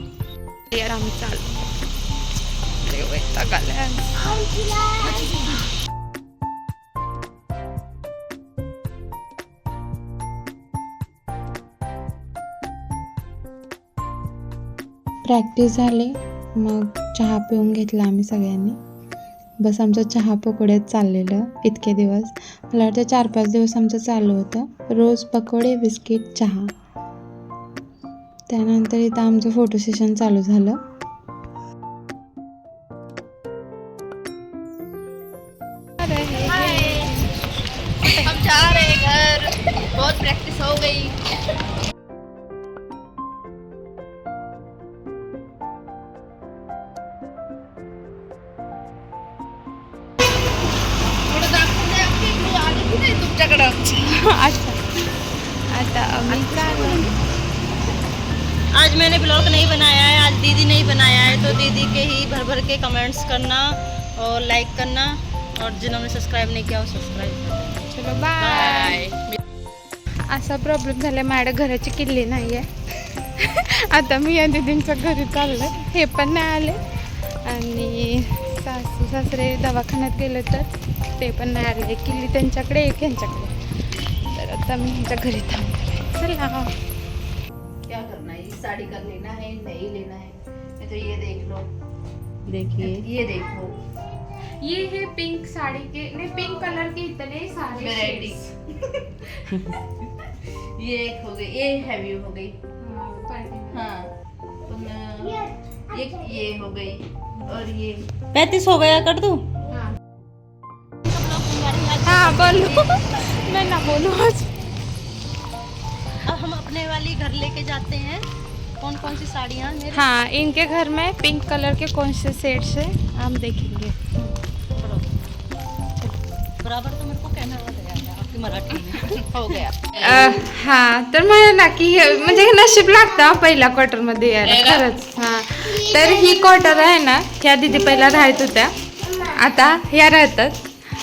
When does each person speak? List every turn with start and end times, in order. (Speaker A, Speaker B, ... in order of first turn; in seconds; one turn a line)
Speaker A: 0.7-1.5
Speaker A: 2.8-4.2
Speaker B: 5.0-5.5
Speaker A: 15.2-18.8
Speaker A: 19.6-26.7
Speaker A: 28.5-30.8
Speaker A: 36.0-37.4
Speaker C: 36.3-37.2
Speaker C: 38.1-41.2
Speaker C: 51.2-53.8
Speaker A: 53.9-54.8
Speaker A: 55.7-57.1
Speaker B: 56.2-57.1
Speaker B: 58.7-67.8
Speaker A: 67.9-69.0
Speaker C: 68.4-69.4
Speaker A: 70.3-83.5
Speaker A: 84.2-86.7
Speaker C: 87.9-91.7
Speaker B: 92.5-93.0
Speaker C: 92.8-93.8
Speaker A: 94.6-98.4
Speaker C: 97.7-98.5
Speaker C: 100.8-102.6
Speaker A: 102.8-103.8
Speaker C: 103.7-104.1
Speaker C: 104.7-108.0
Speaker B: 108.3-109.5
Speaker B: 111.0-113.3
Speaker A: 112.0-114.5
Speaker B: 116.2-118.2
Speaker B: 118.8-120.0
Speaker A: 119.9-124.1
Speaker B: 124.7-125.1
Speaker B: 126.6-129.6
Speaker C: 129.3-130.4
Speaker A: 130.0-140.6
Speaker C: 134.4-134.9